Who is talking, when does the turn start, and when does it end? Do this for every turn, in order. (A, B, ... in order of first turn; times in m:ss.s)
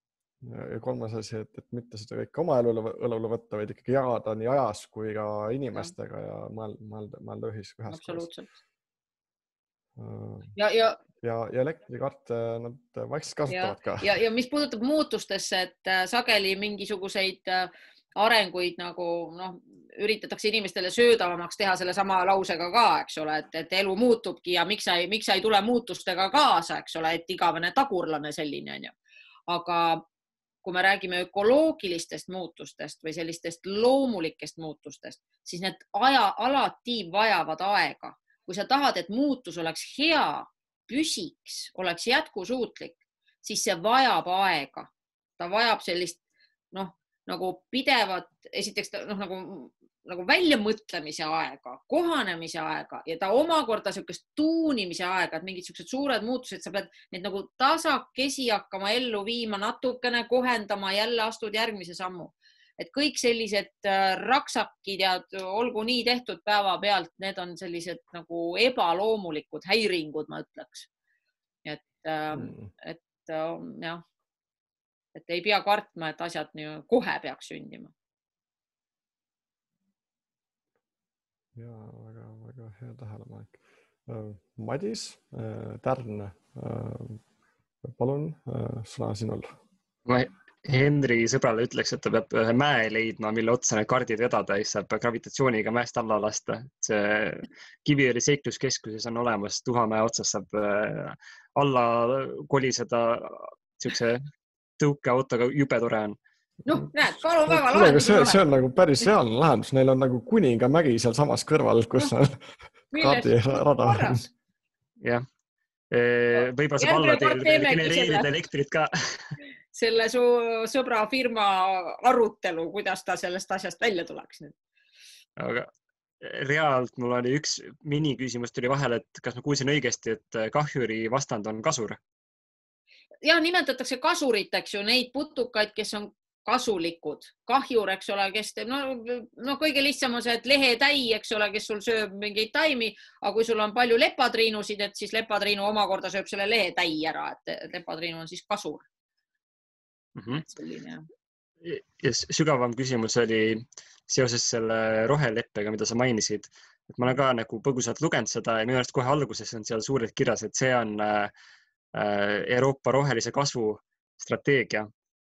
0:00.4-0:08.3 A
0:07.9-0:08.5 B
0:10.0-0:10.5 A
0:10.6-0:11.0 B
0:11.2-0:14.1 A
0:13.5-0:29.0 B
0:29.5-0:30.0 B
0:30.6-0:46.2 B
0:46.7-1:10.9 B
1:11.6-1:14.0 B
1:12.4-1:12.7 A
1:15.2-1:17.9 B
1:21.6-1:27.2 A
1:27.8-1:29.5 A
1:30.1-1:44.2 C
1:44.8-1:46.2 C
1:46.7-1:48.4 B
1:47.5-1:52.5 A
1:52.9-1:54.3 B
1:53.0-1:54.3 A
1:55.9-1:59.2 C
1:56.8-1:58.3 B
1:59.7-2:04.6 B
2:05.4-2:05.7 C
2:06.2-2:12.0 C
2:13.2-2:28.9 B
2:30.2-2:30.4 C
2:30.3-2:31.1 B
2:31.6-2:41.3 C
2:41.9-2:44.9 C